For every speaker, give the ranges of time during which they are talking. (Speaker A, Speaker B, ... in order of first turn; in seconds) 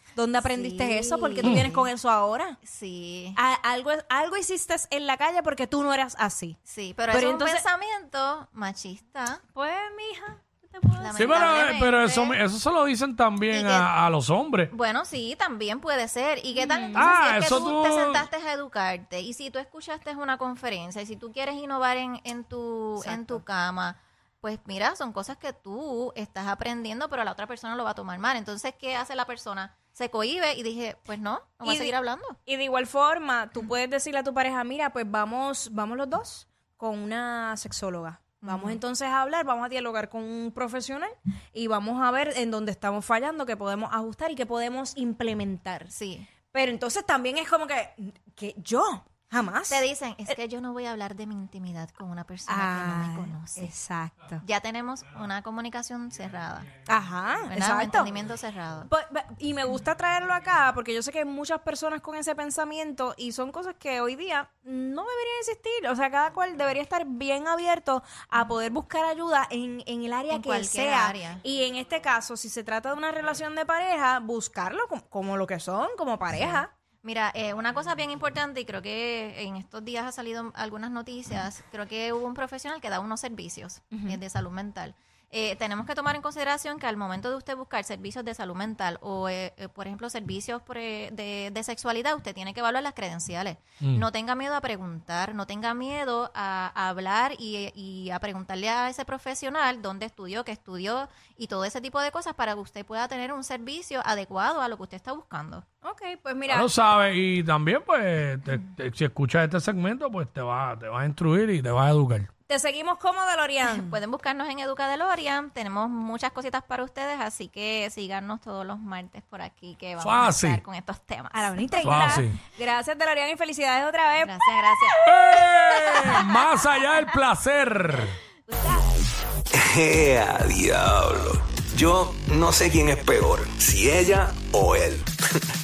Speaker A: 0.1-2.6, 3.4-6.6, 7.1-7.6, 9.5-11.5, 16.6-17.1, 23.0-23.4, 31.6-31.9, 32.5-45.9, 46.5-49.9, 52.5-54.4, 56.8-58.1, 58.9-76.7, 83.9-84.2, 105.8-106.7, 112.5-113.9, 121.3-124.3, 125.7-126.1, 128.6-128.8
Speaker B: 0.4-1.9, 2.6-3.4, 6.7-9.4, 11.0-12.4, 13.5-13.9, 14.7-32.4, 38.4-38.8, 45.9-46.3, 49.7-53.7, 54.4-56.7, 57.5-58.9, 70.3-71.4, 76.3-105.6, 113.7-122.2, 124.2-125.0
Speaker C: 11.2-14.7, 16.9-18.2, 106.5-112.3, 120.0-120.6, 121.8-122.4, 125.0-128.2
Speaker D: 129.5-135.1